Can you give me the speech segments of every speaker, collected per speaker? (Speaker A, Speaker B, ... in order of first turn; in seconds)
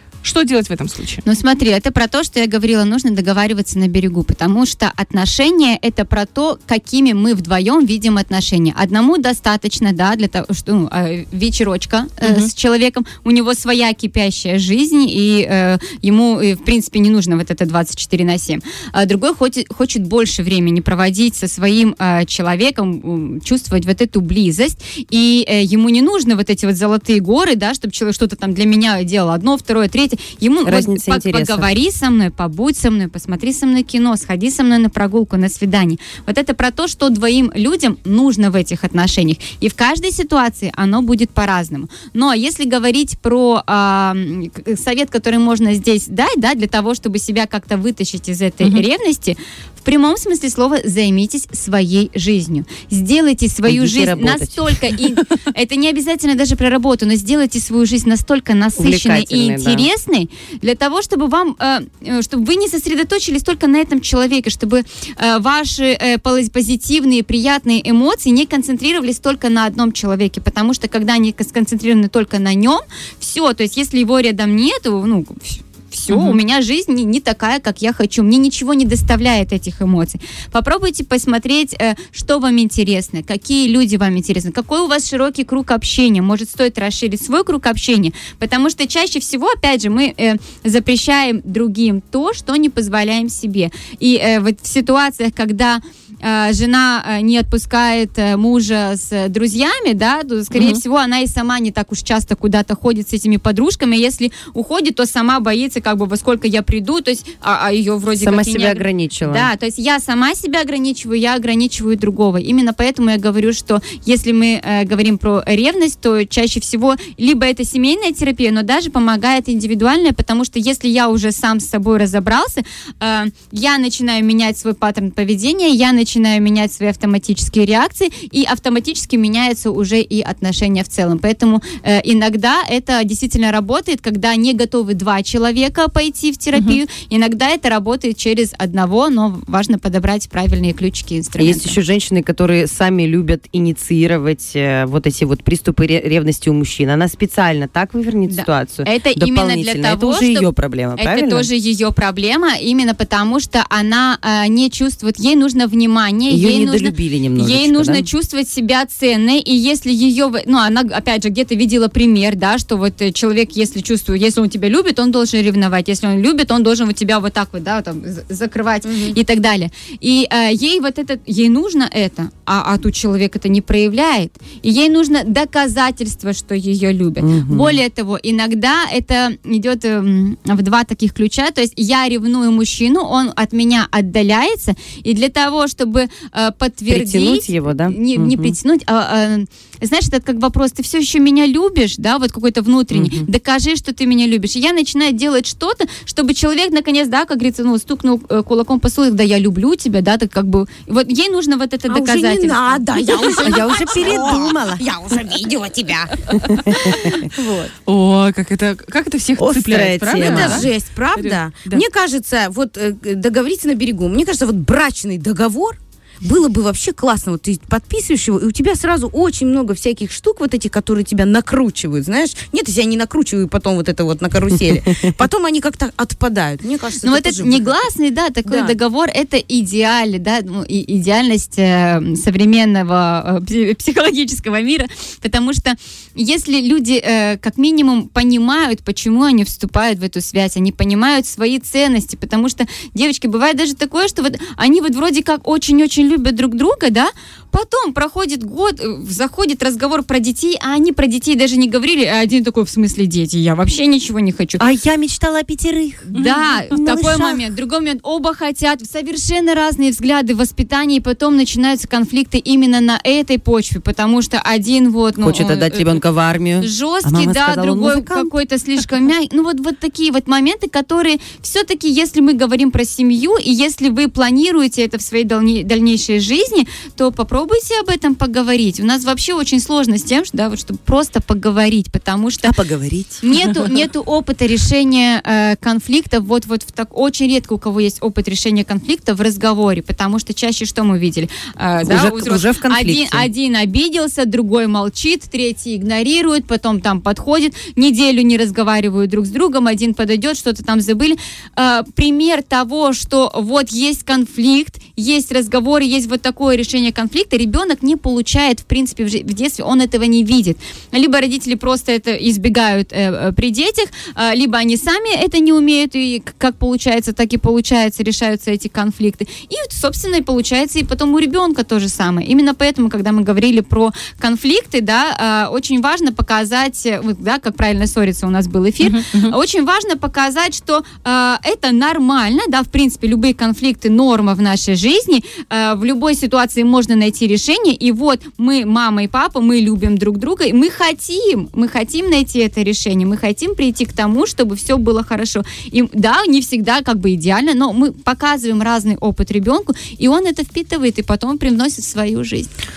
Speaker A: 0.2-1.2, 12.2-12.5, 76.1-76.4, 136.6-136.8, 207.8-211.8, 256.1-256.6, 328.8-329.4
Speaker B: 1.2-141.8, 148.3-203.5, 207.4-207.7, 227.0-254.7, 256.1-266.0, 266.6-282.5, 283.2-352.5
Speaker C: 30.6-31.7, 53.7-54.6, 58.8-59.9, 100.5-100.8, 108.2-109.5, 141.4-151.5, 156.3-158.1, 177.2-177.8, 186.9-188.6, 192.9-193.3, 203.3-204.8, 206.5-207.3, 209.4-210.7, 254.6-256.1, 256.6-257.4, 265.2-268.3, 282.4-283.2, 291.8-293.3
Speaker D: 168.8-169.2, 201.9-206.2, 210.2-227.8, 228.4-228.8